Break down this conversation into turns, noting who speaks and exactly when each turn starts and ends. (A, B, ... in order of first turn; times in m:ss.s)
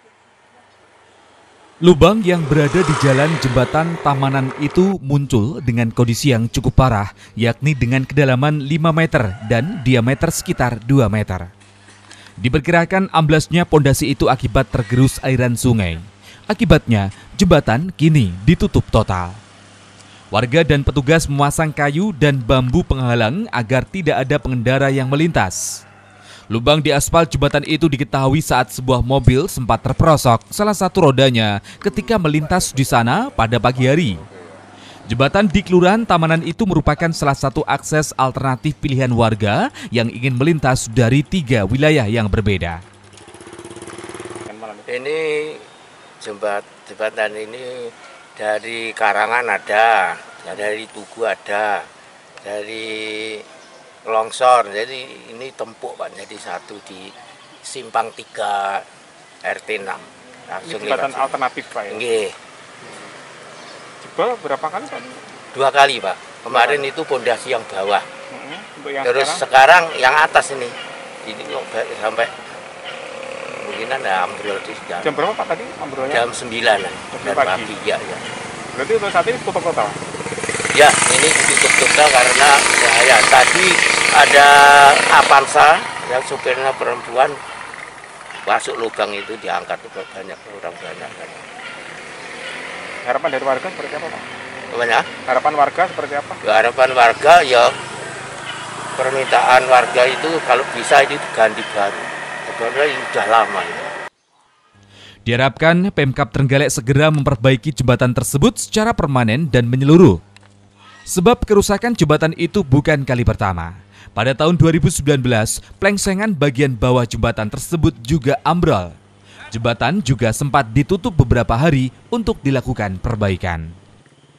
0:01.8-0:11.5 A
0:12.4-0:19.3 A
0:20.3-0:25.6 A
0:26.5-0:34.2 A
0:35.1-0:42.8 A
0:44.4-0:44.9 B
0:44.9-0:45.6 C
0:46.2-0:51.9 C
0:52.4-0:53.4 C
0:54.0-0:58.8 C
0:59.4-1:01.3 C
1:00.6-1:02.0 B
1:01.9-1:02.3 C
1:04.0-1:05.4 B
1:05.5-1:08.0 C
1:06.5-1:06.9 B
1:08.3-1:09.4 B
1:09.0-1:12.3 C
1:13.6-1:15.2 C
1:15.0-1:16.3 B
1:16.1-1:18.2 C
1:17.0-1:17.7 B
1:18.7-1:20.0 B
1:20.7-1:27.4 C
1:28.4-1:31.4 C
1:33.0-1:34.3 B
1:34.7-1:35.1 C
1:35.2-1:36.4 B
1:36.4-1:37.7 C
1:39.0-1:43.9 C
1:45.2-1:50.2 A
1:51.1-1:58.9 A
1:59.5-2:03.6 A